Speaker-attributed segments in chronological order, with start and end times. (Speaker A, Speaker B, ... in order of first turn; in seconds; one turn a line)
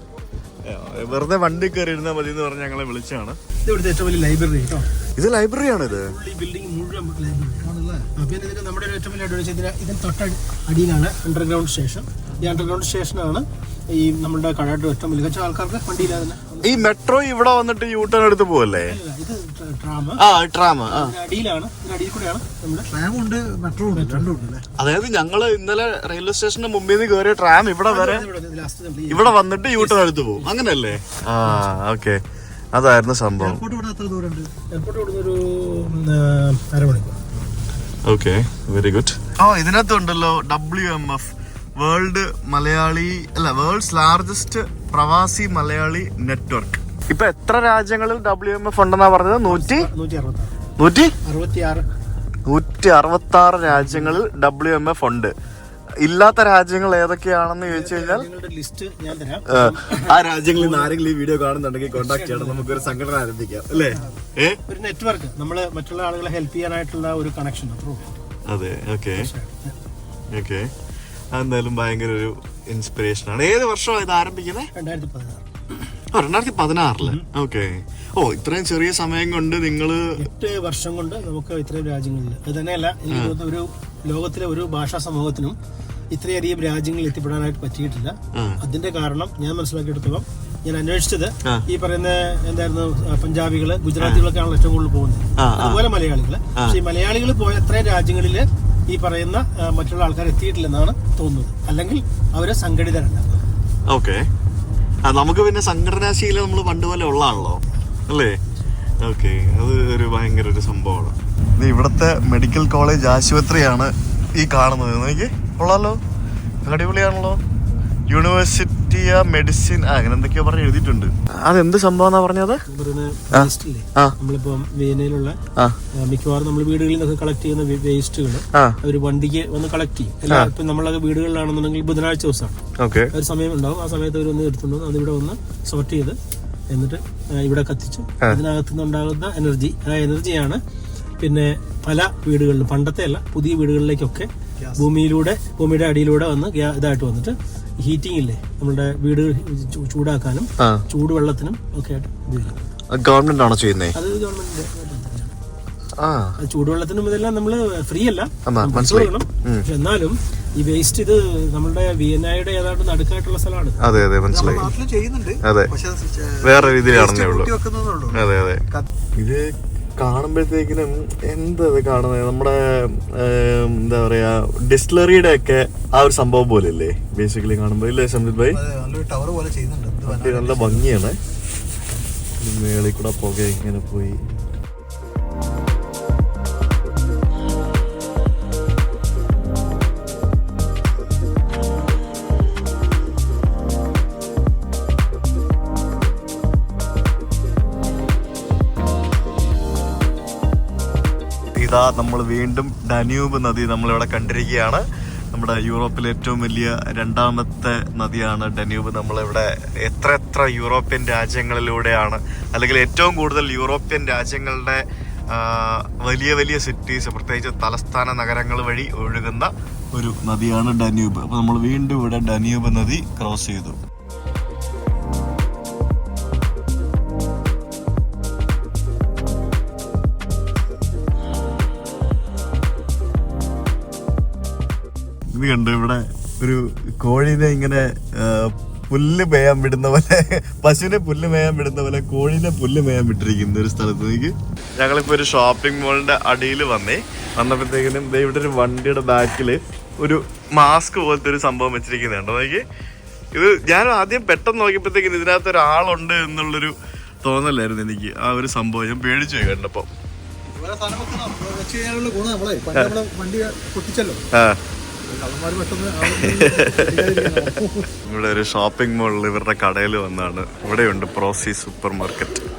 Speaker A: 0.7-3.4
Speaker B: 3.7-4.9
Speaker A: 5.2-6.1
Speaker B: 5.9-16.9
Speaker C: 7.6-8.1
Speaker A: 16.6-19.0
Speaker B: 18.8-20.2
Speaker A: 20.2-21.2
Speaker B: 20.9-22.9
Speaker C: 22.9-24.6
Speaker B: 23.9-24.3
Speaker A: 24.8-28.3
Speaker B: 27.9-30.0
Speaker A: 29.1-32.2
Speaker A: 32.7-33.6
Speaker C: 33.4-34.5
Speaker B: 34.7-37.2
Speaker A: 38.0-49.9
Speaker B: 49.5-50.5
Speaker A: 50.8-51.1
Speaker B: 51.2-51.9
Speaker A: 52.5-55.3
Speaker B: 53.8-54.2
Speaker A: 56.0-58.3
Speaker B: 57.7-61.0
Speaker A: 59.5-64.6
Speaker B: 62.0-62.9
Speaker B: 64.7-68.1
Speaker A: 68.5-69.3
Speaker B: 69.2-69.8
Speaker A: 70.3-70.7
Speaker A: 71.3-74.7
Speaker B: 74.8-75.5
Speaker A: 76.1-80.2
Speaker B: 80.2-85.6
Speaker A: 83.1-83.4
Speaker B: 86.1-103.4
Speaker A: 88.3-88.6
Speaker A: 95.4-95.9
Speaker A: 103.9-104.3
Speaker A: 105.0-108.4
Speaker A: 109.0-116.0
Speaker A: 116.6-117.4
Speaker A: 118.1-122.6
Speaker B: 122.7-125.4
Speaker A: 123.3-124.2
Speaker B: 126.0-132.6
Speaker A: 132.8-133.1
Speaker B: 133.1-136.2
Speaker B: 136.7-140.6
Speaker B: 141.2-152.6
Speaker A: 152.9-154.0
Speaker B: 153.9-155.3
Speaker A: 156.0-156.4
Speaker B: 156.4-163.8
Speaker A: 158.5-159.7
Speaker A: 163.8-164.7
Speaker C: 164.3-168.9
Speaker A: 165.4-165.7
Speaker A: 166.4-167.5
Speaker A: 168.1-168.6
Speaker A: 169.2-178.6
Speaker C: 178.5-180.9
Speaker A: 180.1-181.2
Speaker A: 182.4-184.4
Speaker A: 201.6-223.8
Speaker A: 235.3-252.7
Speaker A: 253.3-259.9
Speaker C: 260.5-264.2
Speaker A: 262.7-263.0
Speaker A: 264.3-264.6
Speaker C: 265.1-267.9
Speaker A: 266.1-272.4